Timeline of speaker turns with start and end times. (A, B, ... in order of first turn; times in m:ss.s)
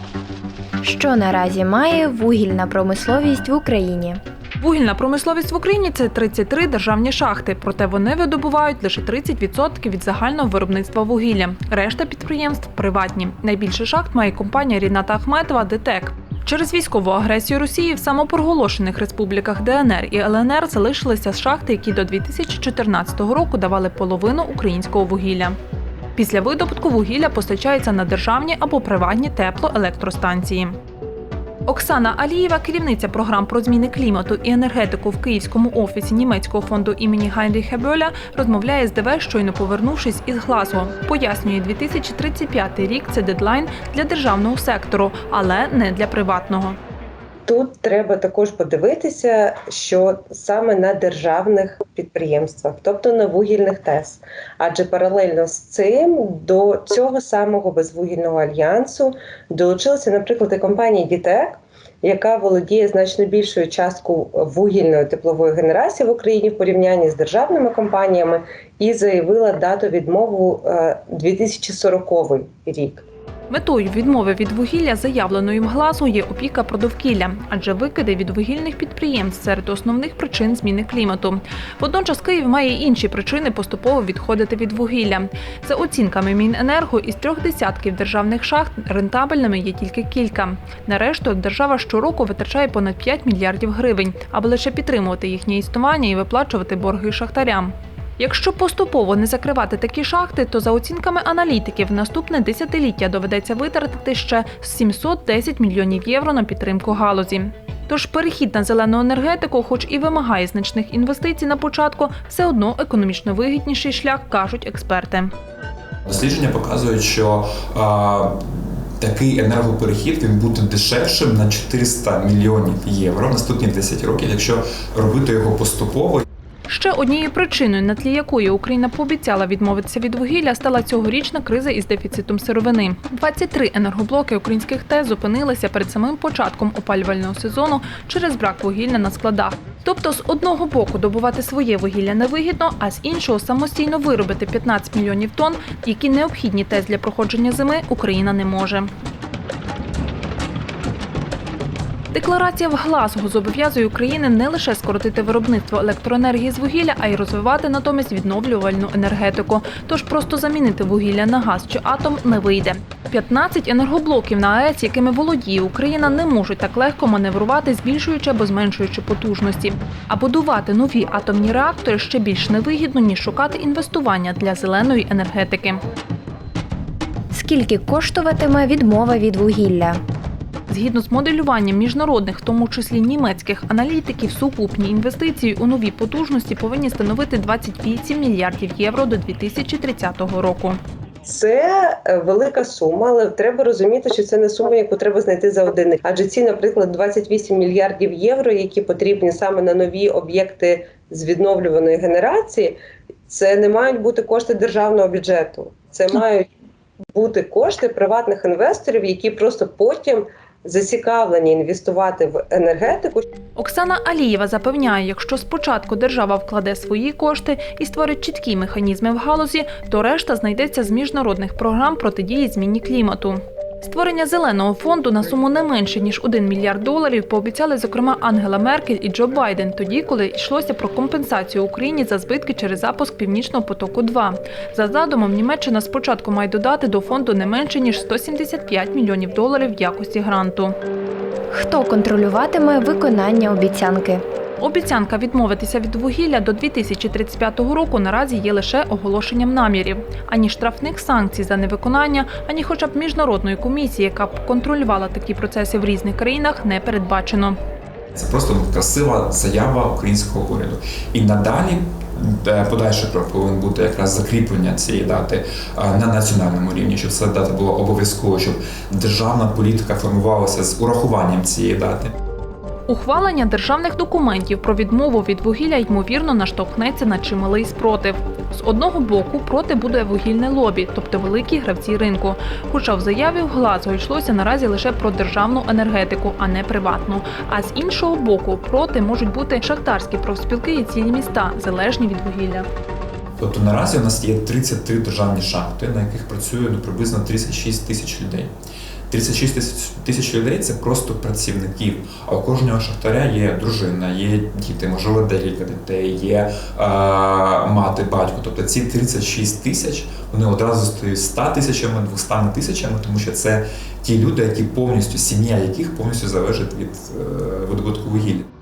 0:00.8-0:04.2 A
0:04.6-0:25.6 B
0:26.2-0:30.8 B
0:31.7-0:46.8 B
0:47.5-1:13.0 C
1:13.5-1:55.3 B
1:56.1-2:06.2 D
2:06.7-2:28.9 B
2:32.1-2:55.8 B
2:57.3-3:00.0 A
3:00.7-3:10.8 B
3:11.3-3:26.5 C
3:27.1-3:33.3 C
3:33.6-4:00.8 B
4:01.5-4:04.2 A
4:04.6-4:17.6 B
4:18.2-4:32.2 D
4:32.9-4:52.7 B
4:53.4-4:58.5 D
4:59.1-5:18.5 D